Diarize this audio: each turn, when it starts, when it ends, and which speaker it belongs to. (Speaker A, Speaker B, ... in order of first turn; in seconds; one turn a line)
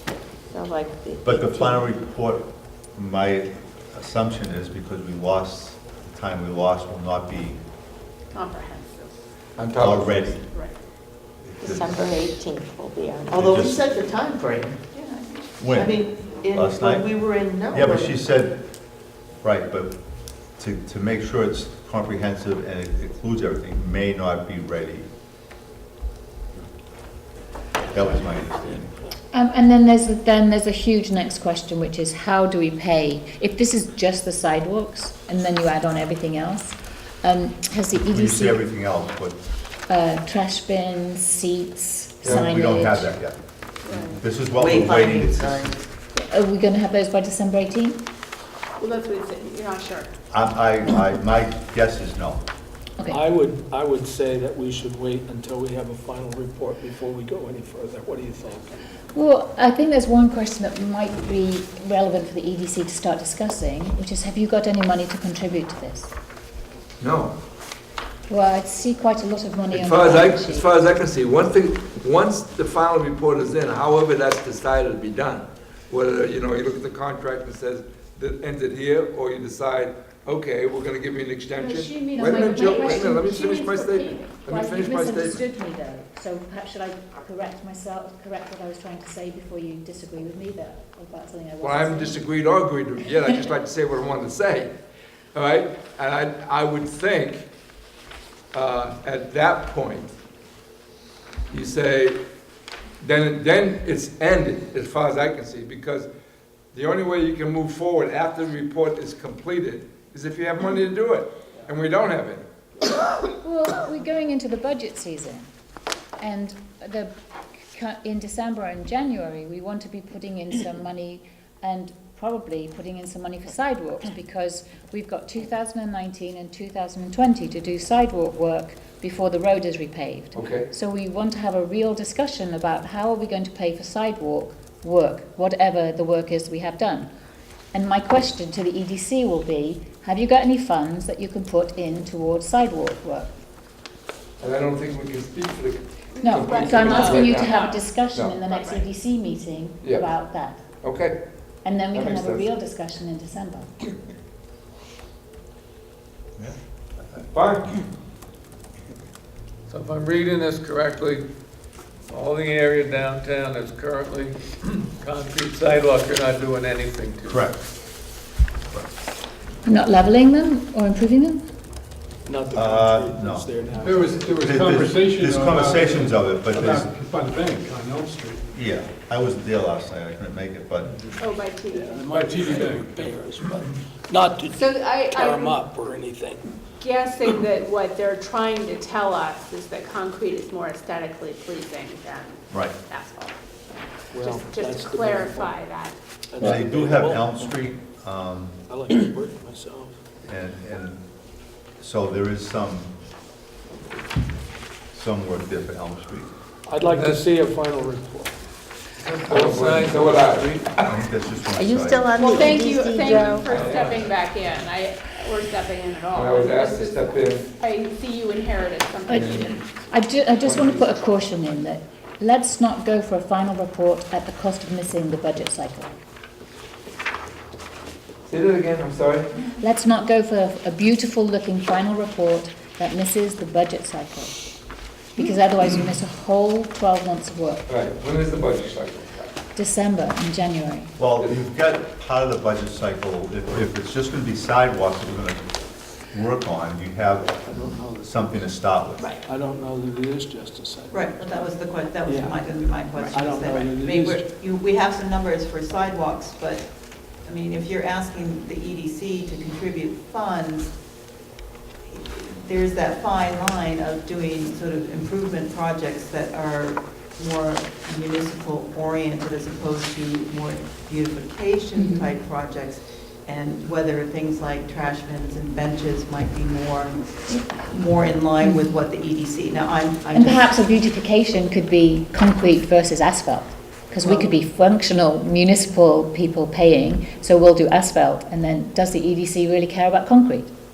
Speaker A: 0.5-1.9
Speaker B: 1.2-7.6
Speaker C: 8.3-9.2
Speaker D: 9.6-10.4
Speaker B: 9.8-10.4
Speaker C: 10.5-10.8
Speaker B: 11.4-12.4
Speaker A: 11.6-13.4
Speaker B: 13.3-13.9
Speaker E: 13.3-14.1
Speaker F: 13.4-14.8
Speaker E: 14.9-16.7
Speaker B: 15.6-18.6
Speaker F: 15.8-18.2
Speaker B: 19.4-20.0
Speaker B: 20.6-25.1
Speaker B: 27.9-28.9
Speaker G: 29.3-38.7
Speaker B: 38.1-39.4
Speaker G: 39.9-43.1
Speaker B: 42.3-43.4
Speaker B: 44.0-45.8
Speaker F: 44.6-45.8
Speaker G: 46.3-48.0
Speaker C: 48.8-50.1
Speaker B: 50.3-52.4
Speaker G: 53.0-53.2
Speaker H: 53.1-58.8
Speaker G: 59.1-65.8
Speaker I: 59.6-60.1
Speaker I: 62.8-63.8
Speaker I: 65.0-66.1
Speaker D: 67.0-67.3
Speaker G: 68.3-70.7
Speaker D: 69.7-85.4
Speaker C: 81.6-84.3
Speaker G: 81.8-92.2
Speaker D: 91.6-94.7
Speaker D: 95.3-97.5
Speaker D: 98.5-100.1
Speaker D: 101.5-102.2
Speaker D: 103.0-106.1
Speaker D: 106.7-112.4
Speaker G: 113.4-115.5
Speaker G: 116.2-137.1
Speaker D: 130.3-130.7
Speaker I: 136.2-136.7
Speaker G: 137.7-143.3
Speaker D: 144.4-147.6
Speaker C: 146.2-147.8
Speaker G: 146.2-150.7
Speaker C: 148.4-148.9
Speaker D: 149.8-150.1
Speaker D: 150.8-151.2
Speaker G: 151.6-153.7
Speaker D: 151.9-152.5
Speaker D: 157.3-157.7
Speaker I: 159.7-161.3
Speaker I: 162.1-167.5
Speaker B: 167.3-167.6
Speaker G: 169.7-171.3
Speaker I: 169.7-171.4
Speaker H: 172.2-174.4
Speaker B: 172.5-173.5
Speaker J: 173.8-178.4
Speaker B: 174.4-176.9
Speaker B: 178.5-180.9
Speaker C: 181.2-182.6
Speaker H: 181.7-186.5
Speaker J: 182.3-182.8
Speaker C: 184.5-185.6
Speaker C: 186.8-193.3
Speaker H: 194.1-195.6
Speaker C: 194.2-196.0
Speaker H: 196.3-197.6
Speaker B: 196.4-198.6
Speaker H: 198.7-200.0
Speaker B: 200.2-201.0
Speaker B: 201.8-202.9
Speaker B: 204.9-206.3
Speaker H: 206.7-208.3
Speaker I: 207.0-207.2
Speaker D: 209.0-211.0
Speaker I: 209.2-210.6
Speaker B: 210.8-212.5
Speaker A: 211.6-213.5
Speaker C: 212.2-219.6
Speaker D: 213.4-214.1
Speaker D: 216.1-217.5
Speaker D: 219.1-219.6
Speaker G: 219.8-226.0
Speaker I: 220.1-220.5
Speaker D: 220.4-221.1
Speaker I: 222.2-225.8
Speaker D: 228.3-229.3
Speaker G: 229.5-233.8
Speaker I: 230.6-231.6
Speaker I: 233.5-234.3
Speaker G: 235.2-237.5
Speaker I: 236.2-237.6
Speaker D: 237.7-239.4
Speaker G: 239.6-240.9
Speaker B: 241.0-245.5
Speaker B: 246.1-247.4
Speaker H: 247.4-248.6
Speaker B: 248.0-249.1
Speaker H: 249.2-251.5
Speaker E: 250.9-256.7
Speaker H: 252.0-254.3
Speaker E: 257.2-260.7
Speaker E: 261.9-280.5
Speaker G: 271.8-272.1
Speaker G: 278.4-278.7
Speaker G: 280.1-290.4
Speaker E: 284.0-284.3